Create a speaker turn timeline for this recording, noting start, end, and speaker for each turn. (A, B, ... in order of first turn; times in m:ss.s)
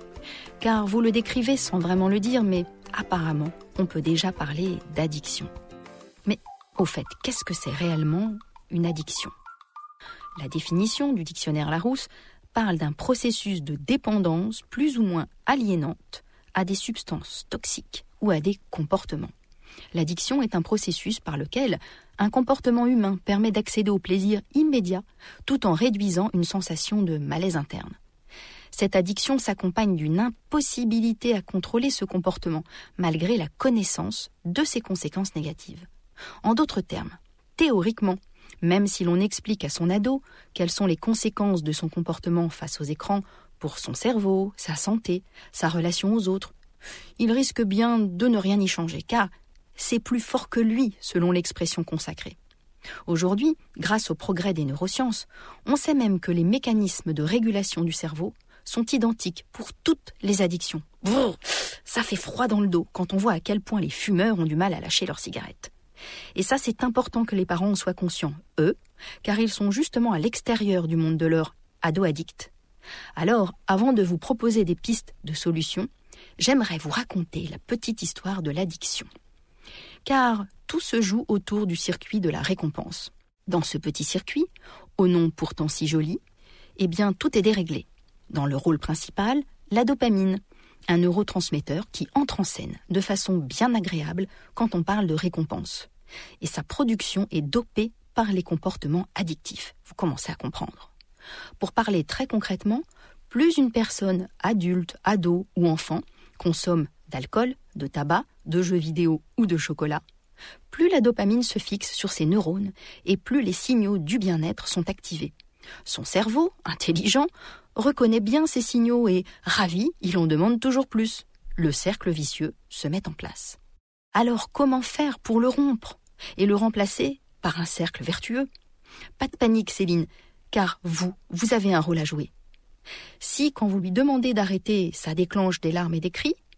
0:00.6-0:05.5 A
0:06.2-0:09.3 A
0:10.4-0:19.3 A
0:19.9-0:28.0 A
0:28.7-0:35.9 A
0:36.4-0:46.5 A
0:47.2-0:52.4 A
0:53.1-1:05.7 A
1:06.3-1:12.5 A
1:13.2-1:19.1 A
1:20.0-1:26.2 A
1:26.8-1:35.9 A
1:36.4-1:40.9 A
1:41.6-1:50.0 A
1:50.7-1:55.3 A
1:55.8-2:03.6 A
2:04.1-2:08.5 A
2:09.2-2:12.3 A
2:13.2-2:16.4 A